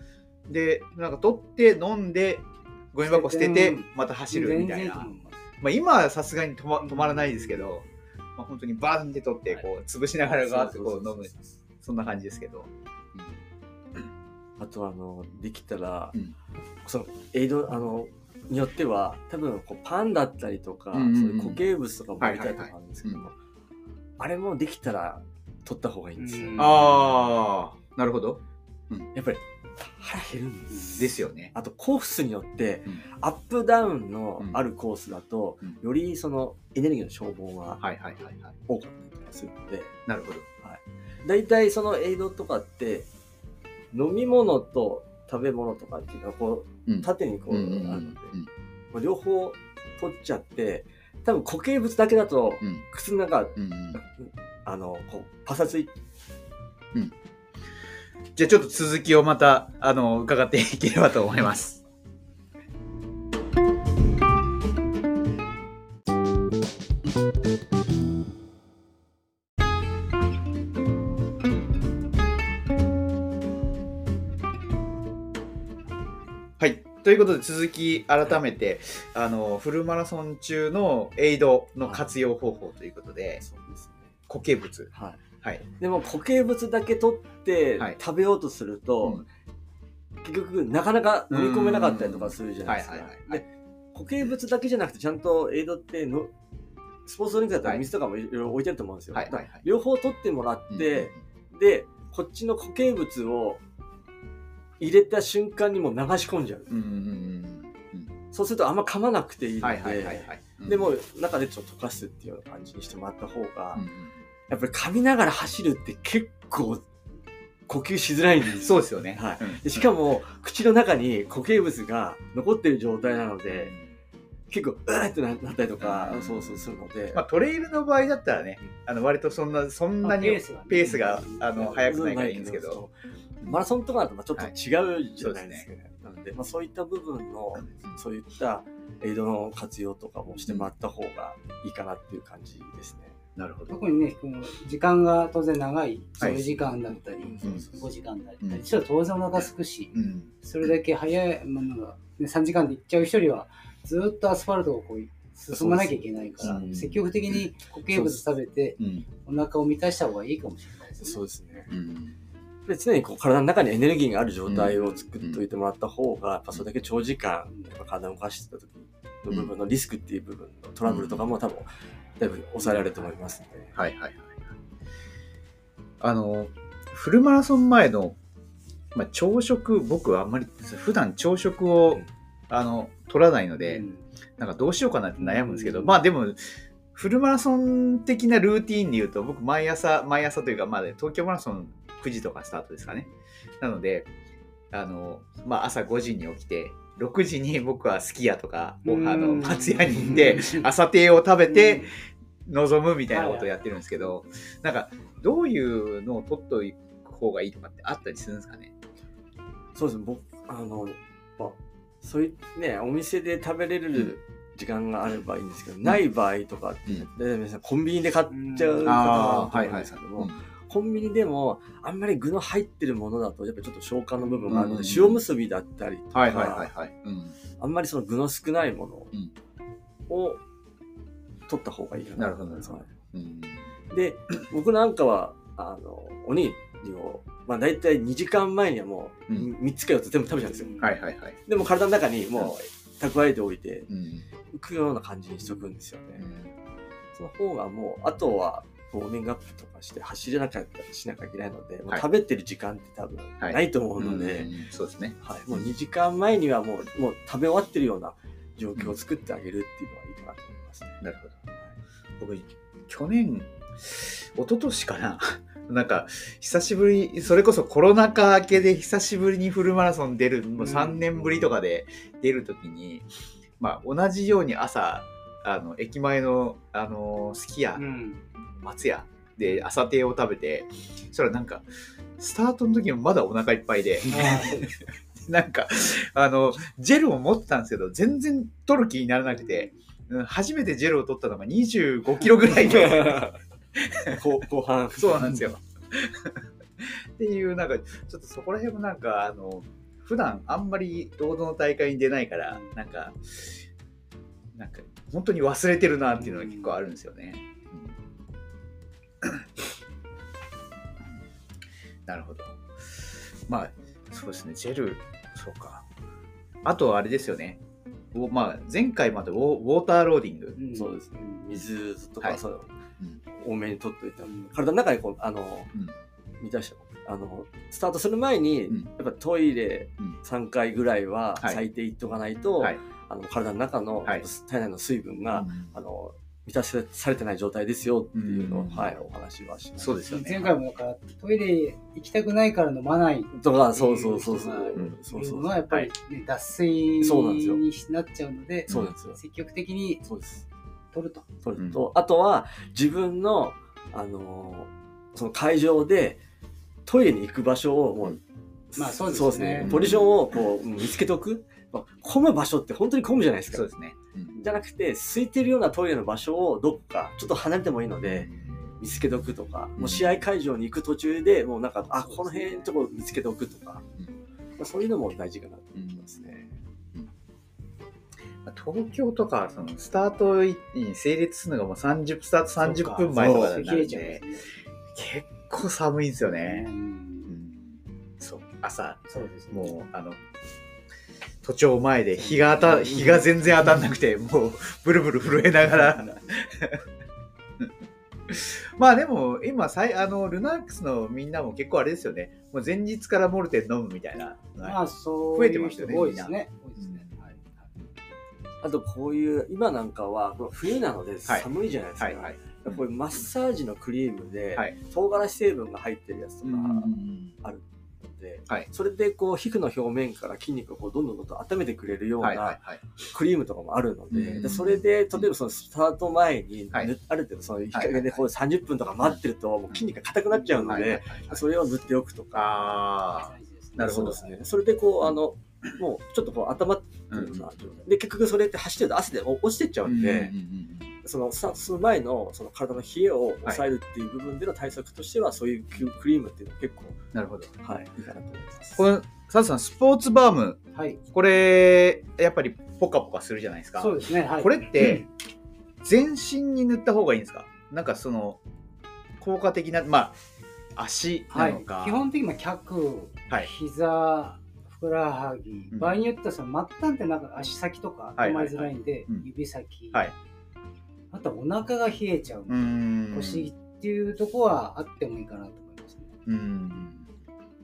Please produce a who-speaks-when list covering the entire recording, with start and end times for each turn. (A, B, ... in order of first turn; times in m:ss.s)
0:00.5-0:05.1 A
0:03.0-0:05.4 B
0:05.6-0:11.3 A
0:06.8-0:07.6 B
0:10.2-0:11.4 C
0:11.8-0:13.3 A
0:14.6-0:16.2 C
0:16.8-0:23.3 C
0:20.9-0:21.6 A
0:22.2-0:23.2 A
0:24.2-0:27.0 C
0:26.2-0:26.9 B
0:26.6-0:29.1 A
0:29.1-0:37.8 C
0:31.0-0:31.5 A
0:37.8-0:38.5 A
0:38.7-0:39.9 C
0:40.1-0:40.4 A
0:40.6-0:43.1 C
0:43.9-0:48.3 C
0:46.9-0:48.5 A
0:48.9-0:55.9 C
0:53.6-0:54.0 A
0:58.4-1:01.8 A
1:16.6-1:23.4 A
1:23.4-1:24.1 C
1:24.3-1:24.9 A
1:24.9-1:25.2 C
1:25.8-1:29.2 C
1:30.2-1:36.3 C
1:31.3-1:33.4 A
1:37.0-1:43.6 C
1:39.1-1:39.6 A
1:40.7-1:41.1 A
1:44.8-1:46.7 C
1:46.7-1:48.1 A
1:48.3-1:53.8 C
1:49.6-1:50.9 A
1:53.8-1:54.2 A
1:54.5-1:56.8 C
1:57.7-2:03.7 C
1:58.6-1:59.9 A
2:03.5-2:03.8 A
2:04.5-2:07.2 C
2:05.8-2:12.8 A
2:10.0-2:11.9 B
2:11.8-2:12.9 C
2:13.4-2:23.2 C
2:15.2-2:15.6 A
2:23.4-2:23.8 A
2:23.7-2:41.2 B
2:26.2-2:27.8 C
2:29.9-2:30.3 A
2:35.5-2:36.6 C
2:36.4-2:37.0 A
2:38.8-2:39.0 A
2:41.0-2:41.7 C
2:41.7-2:42.2 A
2:42.7-2:51.7 C
2:44.5-2:45.4 A
2:50.9-2:51.3 A
2:52.2-2:53.8 C
2:53.8-2:54.4 A
2:56.0-2:58.2 A
2:58.9-3:03.8 A
3:03.6-3:04.0 B
3:04.4-3:13.1 A
3:05.2-3:06.0 B
3:13.6-3:14.1 A
3:14.7-3:21.9 A
3:18.8-3:20.7 B
3:21.5-3:21.9 B
3:22.4-3:28.7 A
3:23.1-3:23.5 B
3:29.7-3:46.7 C
3:38.3-3:39.5 B
3:38.8-3:40.4 A
3:44.5-3:45.2 A
3:46.1-3:47.3 A
3:47.6-3:49.1 C
3:50.1-3:50.4 C
3:51.5-3:52.9 C
3:52.2-3:53.6 A
3:53.9-4:00.9 C
4:00.6-4:00.9 B
4:00.8-4:01.4 A
4:01.5-4:03.9 C
4:03.9-4:04.2 A
4:04.5-4:06.3 C
4:06.2-4:06.5 A
4:07.1-4:14.5 C
4:13.4-4:15.2 A
4:15.2-4:21.0 C
4:21.0-4:21.4 A
4:22.2-4:33.0 A
4:30.6-4:31.2 B
4:33.6-4:37.8 A
4:37.8-4:38.2 B
4:38.6-4:41.6 A
4:42.2-4:54.2 A
4:44.1-4:44.7 B
4:49.4-4:49.7 B
4:52.6-4:53.4 C
4:54.0-4:55.4 C
4:55.0-5:03.6 A
5:04.5-5:08.0 A
5:06.2-5:06.7 B
5:12.0-5:15.8 A
5:16.6-5:17.6 A
5:18.1-5:20.6 A
5:20.6-5:21.4 B
5:20.7-5:22.7 C
5:23.4-5:25.7 C
5:24.2-5:24.5 B
5:26.4-5:40.0 C
5:35.3-5:35.7 A
5:38.1-5:39.0 A
5:39.8-5:40.5 A
5:40.1-5:50.0 B
5:43.3-5:45.8 C
5:47.0-5:47.6 C
5:48.7-5:49.2 C
5:50.0-5:50.4 C
5:50.9-5:51.2 B
5:51.4-5:56.2 C
5:51.6-5:51.8 A
5:56.8-5:58.2 C
5:58.7-6:03.7 C
5:58.8-5:59.7 B
5:59.6-6:00.2 A
6:03.5-6:04.4 A
6:04.4-6:13.8 C
6:08.0-6:08.5 A
6:09.8-6:10.2 A
6:12.3-6:12.6 B
6:14.6-6:16.5 C
6:15.8-6:16.2 A
6:18.4-6:24.2 A
6:22.6-6:24.4 B
6:23.1-6:23.6 C
6:24.9-6:26.6 A
6:26.2-6:27.4 B
6:27.3-6:30.2 A
6:29.1-6:29.7 B
6:31.4-6:36.8 A
6:32.6-6:33.2 C
6:38.3-6:44.8 A
6:44.6-6:47.4 B
6:45.3-6:47.1 A
6:48.6-7:12.6 C
6:52.0-6:52.8 A
6:56.4-6:57.3 A
7:02.2-7:02.8 A
7:04.1-7:05.3 A
7:07.7-7:08.2 A
7:10.6-7:11.4 A
7:12.3-7:14.2 A
7:13.2-7:14.2 B
7:13.8-7:20.3 C
7:17.1-7:17.5 A
7:19.8-7:20.9 A
7:21.0-7:27.0 C
7:27.1-7:27.5 A
7:27.6-7:28.8 C
7:28.8-7:30.6 A
7:30.7-7:31.0 B
7:31.1-7:35.0 A
7:33.8-7:35.0 B
7:35.8-7:38.4 A
7:39.2-7:40.2 A
7:40.8-7:42.0 A
7:41.3-7:50.1 B
7:45.7-7:46.0 A
7:48.2-7:49.2 A
7:51.1-7:56.1 B
7:52.5-7:53.5 A
7:56.2-7:57.1 A